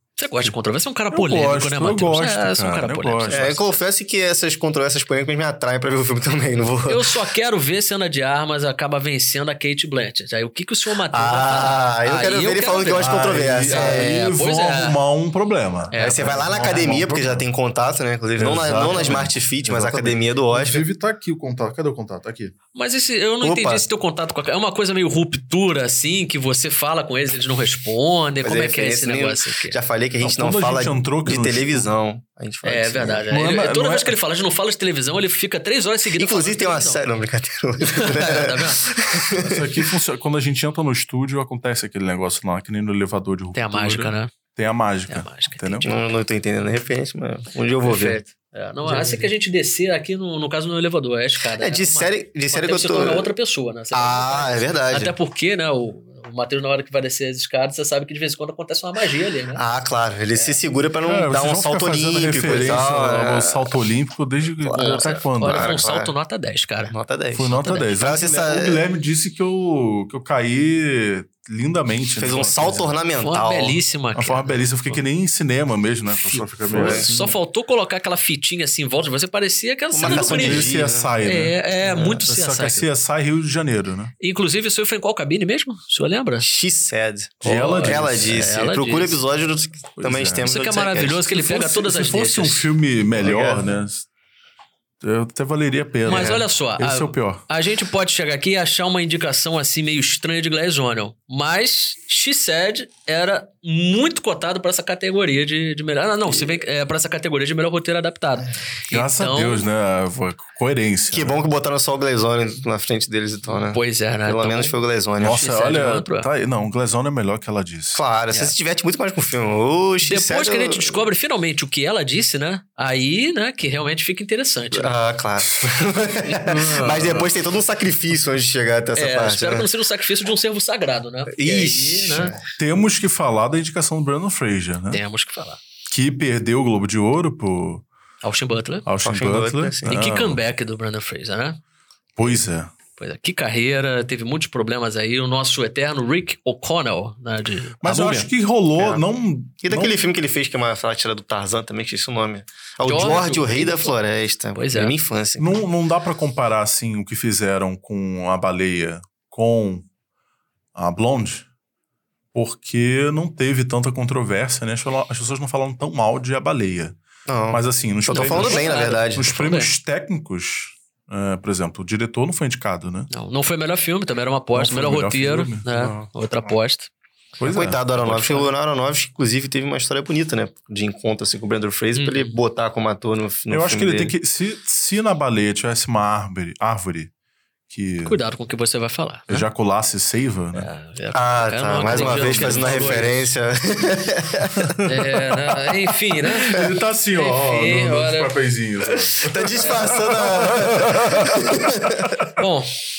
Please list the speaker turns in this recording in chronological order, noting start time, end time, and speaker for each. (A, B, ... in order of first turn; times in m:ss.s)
0:00.2-0:03.7 A
0:01.1-0:03.6 B
0:03.3-0:07.1 C
0:06.9-0:15.0 A
0:11.1-0:14.4 C
0:12.8-0:17.4 B
0:15.9-0:16.3 A
0:15.9-0:20.8 C
0:18.4-0:22.6 B
0:22.8-0:29.8 A
0:23.4-0:23.9 C
0:28.4-0:33.3 C
0:30.2-0:31.9 B
0:32.6-0:37.0 A
0:33.3-0:34.2 B
0:36.2-0:39.9 C
0:37.8-0:39.0 A
0:39.4-0:45.9 B
0:43.5-0:44.3 A
0:45.1-0:46.0 A
0:45.8-0:48.2 C
0:47.8-0:59.6 A
0:48.8-0:49.3 C
0:51.6-0:53.3 C
0:53.9-0:55.2 C
0:59.6-1:03.7 C
1:01.1-1:05.8 B
1:04.6-1:06.1 C
1:04.8-1:06.9 A
1:06.9-1:08.8 C
1:07.4-1:12.9 B
1:07.6-1:08.0 A
1:12.2-1:13.8 C
1:13.2-1:15.0 A
1:14.2-1:17.4 B
1:16.3-1:20.7 A
1:16.7-1:17.1 C
1:19.9-1:21.1 C
1:20.0-1:24.1 B
1:21.2-1:22.9 A
1:24.2-1:26.5 A
1:26.4-1:31.3 C
1:27.4-1:28.5 B
1:27.4-1:29.2 A
1:30.0-1:30.5 B
1:30.4-1:32.7 A
1:31.3-1:34.1 B
1:33.2-1:33.6 C
1:35.0-1:37.4 B
1:36.0-1:49.6 A
1:36.1-1:36.4 C
1:48.9-1:51.4 B
1:51.1-1:55.4 C
1:53.7-1:56.3 A
1:55.2-1:58.0 B
1:58.0-2:01.0 C
2:00.0-2:05.0 A
2:04.7-2:09.7 C
2:06.4-2:07.3 B
2:09.0-2:12.4 A
2:11.3-2:12.4 C
2:12.6-2:15.0 B
2:14.9-2:15.6 A
2:15.9-2:17.8 B
2:18.2-2:18.9 A
2:18.8-2:20.4 B
2:19.0-2:20.1 C
2:19.9-2:21.6 A
2:22.2-2:22.7 B
2:23.0-2:28.3 A
2:27.8-2:30.0 B
2:28.8-2:29.0 C
2:29.6-2:35.6 C
2:32.8-2:33.9 A
2:34.5-2:34.9 A
2:35.4-2:39.9 B
2:40.8-2:41.5 B
2:42.3-2:47.0 B
2:47.3-2:49.3 C
2:47.5-2:53.1 B
2:48.1-2:49.7 A
2:53.1-2:56.9 A
2:54.5-2:56.1 B
2:57.4-2:58.5 B
2:57.4-3:04.1 C
3:02.0-3:02.4 A
3:03.5-3:07.1 B
3:07.7-3:08.2 B
3:08.1-3:09.4 A
3:09.3-3:10.7 B
3:10.6-3:13.2 A
3:11.1-3:14.8 C
3:11.8-3:13.3 B
3:14.6-3:15.0 B
3:14.8-3:16.6 A
3:16.3-3:22.4 B
3:17.1-3:18.3 A
3:19.2-3:22.2 C
3:19.6-3:19.9 A
3:22.4-3:22.7 A